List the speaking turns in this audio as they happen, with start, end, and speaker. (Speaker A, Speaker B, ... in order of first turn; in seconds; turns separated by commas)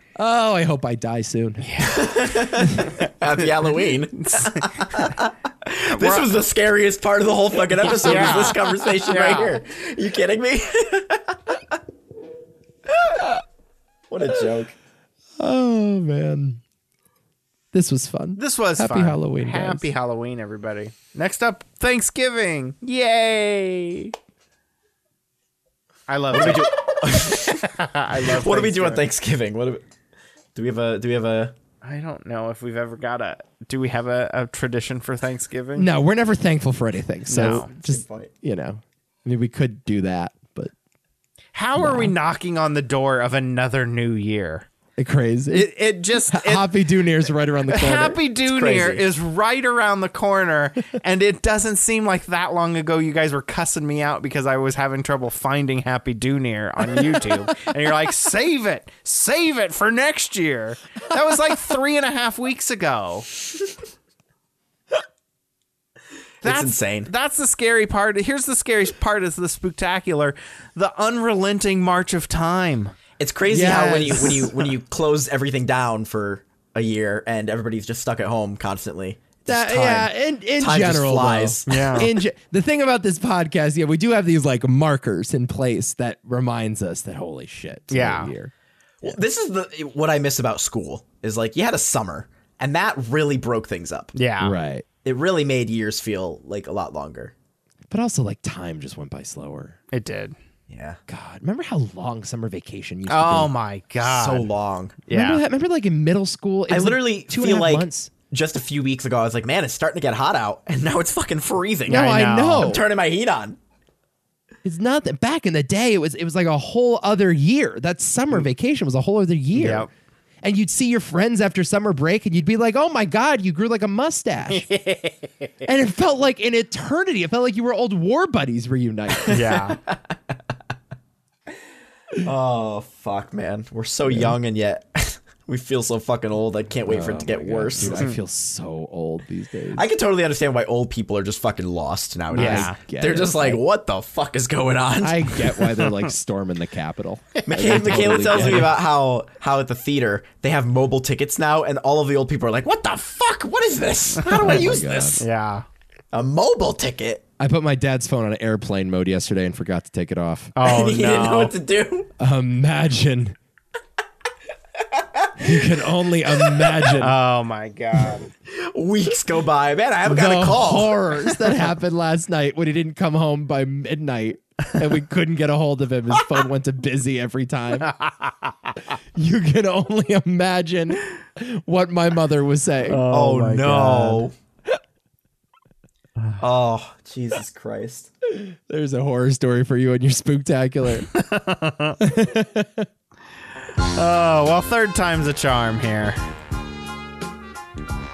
Speaker A: 0.2-1.7, Speaker B: 1.6-2.0, Speaker C: 1.8-11.7, Speaker A: 2.6-2.9, Speaker B: 4.2-5.1, Speaker B: 5.9-6.3, Speaker B: 7.8-9.6, Speaker C: 12.9-13.2, Speaker C: 14.1-14.7, Speaker A: 15.4-16.6, Speaker A: 17.7-19.9, Speaker B: 18.4-24.1, Speaker B: 26.1-29.1, Speaker C: 26.3-27.6, Speaker C: 28.2-29.8, Speaker C: 30.6-31.5, Speaker B: 31.8-35.9, Speaker A: 35.8-40.7, Speaker B: 37.3-37.7, Speaker C: 37.4-38.3, Speaker B: 41.5-44.7, Speaker A: 41.8-42.1, Speaker A: 45.0-45.7, Speaker B: 45.5-46.9, Speaker A: 46.3-48.2, Speaker B: 47.7-63.3, Speaker C: 48.5-49.0, Speaker C: 66.4-67.1, Speaker B: 66.4-73.0, Speaker C: 73.2-82.1, Speaker A: 73.5-74.5, Speaker A: 79.5-88.5, Speaker B: 81.7-82.1, Speaker B: 87.9-88.3, Speaker C: 89.0-94.1, Speaker B: 94.2-94.5, Speaker A: 94.4-94.8, Speaker C: 95.0-97.3, Speaker A: 97.9-99.8, Speaker B: 99.9-100.3, Speaker C: 100.7-101.0, Speaker A: 101.1-103.5, Speaker B: 103.1-104.5, Speaker C: 104.0-105.0, Speaker B: 105.1-105.4, Speaker A: 105.1-108.1, Speaker C: 106.7-113.6, Speaker A: 111.9-112.8, Speaker B: 111.9-112.8, Speaker A: 114.6-119.9, Speaker B: 119.5-119.9, Speaker A: 120.4-124.7, Speaker B: 124.5-125.5, Speaker A: 125.6-129.3, Speaker C: 129.3-130.0, Speaker B: 129.3-129.8, Speaker C: 132.2-138.1, Speaker A: 134.1-134.3, Speaker A: 136.9-139.9, Speaker B: 137.9-138.2, Speaker C: 139.7-145.5, Speaker A: 142.3-143.6, Speaker B: 142.4-142.8, Speaker A: 145.0-148.7, Speaker B: 147.4-148.7, Speaker C: 147.5-155.2, Speaker A: 154.3-155.2, Speaker B: 154.3-155.7, Speaker C: 156.1-157.2, Speaker A: 157.4-160.5, Speaker B: 160.6-161.5, Speaker C: 160.6-162.1, Speaker A: 162.2-163.4, Speaker C: 164.9-165.6, Speaker A: 165.4-167.1, Speaker C: 166.3-166.9, Speaker B: 167.0-168.3, Speaker C: 168.5-171.2, Speaker A: 170.1-177.9, Speaker B: 177.8-178.5, Speaker A: 179.2-183.0, Speaker B: 182.9-184.2, Speaker C: 183.1-184.3, Speaker C: 186.4-188.1, Speaker A: 188.3-191.1, Speaker B: 191.1-192.0, Speaker A: 192.0-192.9, Speaker B: 193.9-196.2